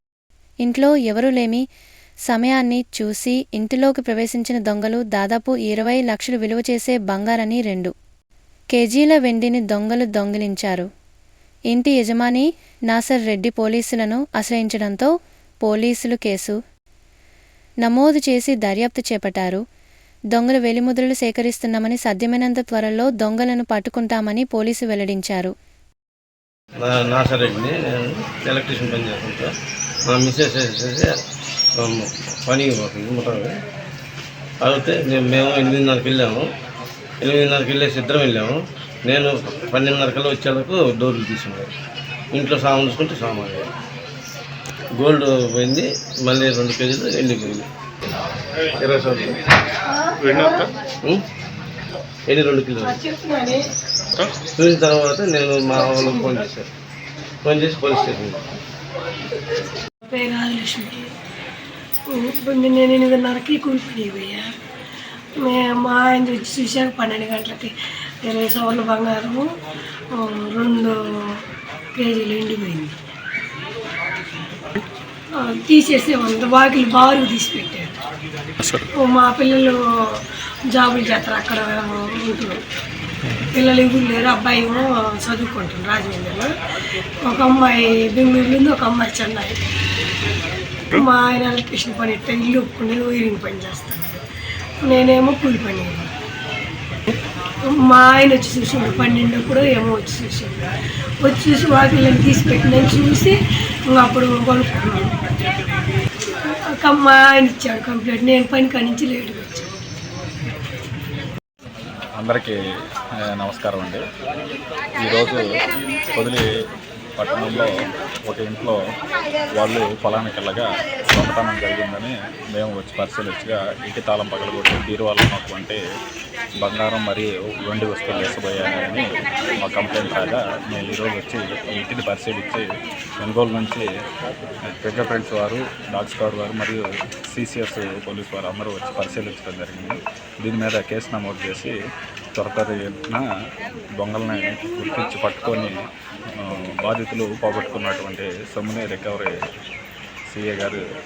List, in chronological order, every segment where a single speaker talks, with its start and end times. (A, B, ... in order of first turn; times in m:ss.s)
0:00.6-0:01.6 A
0:02.3-0:07.9 A
0:08.7-0:10.9 A
0:11.7-0:15.1 A
0:15.6-0:16.6 A
0:17.8-0:19.6 A
0:20.3-0:25.5 A
0:26.8-0:29.5 B
0:30.1-0:31.1 B
0:31.8-0:33.5 B
0:34.6-0:36.5 B
0:37.2-0:41.7 B
0:42.3-0:43.7 B
0:45.0-0:47.7 B
0:48.8-0:49.4 B
0:49.9-0:50.7 C
0:52.3-0:53.0 B
0:52.8-0:53.6 C
0:54.6-0:56.7 B
0:57.4-0:58.6 B
1:00.1-1:01.1 C
1:02.1-1:04.5 C
1:05.4-1:09.5 C
1:10.1-1:11.4 C
1:12.0-1:13.0 C
1:15.4-1:18.0 C
1:19.0-1:22.6 C
1:23.5-1:26.5 C
1:27.2-1:29.6 C
1:30.9-1:34.2 C
1:34.8-1:36.1 C
1:37.6-1:40.7 C
1:41.2-1:43.4 C
1:43.9-1:45.1 C
1:46.4-1:49.7 C
1:52.2-1:52.6 D
1:53.2-1:54.0 D
1:55.0-1:55.4 D
1:56.1-1:56.4 D
1:57.2-1:57.7 D
1:58.3-1:58.8 D
1:59.5-2:05.8 D
2:06.6-2:09.0 D
2:09.6-2:12.7 D
2:13.2-2:13.9 D
2:14.8-2:21.8 D
2:22.4-2:23.2 D
2:24.0-2:25.8 D
2:26.3-2:29.3 D
2:30.3-2:30.8 D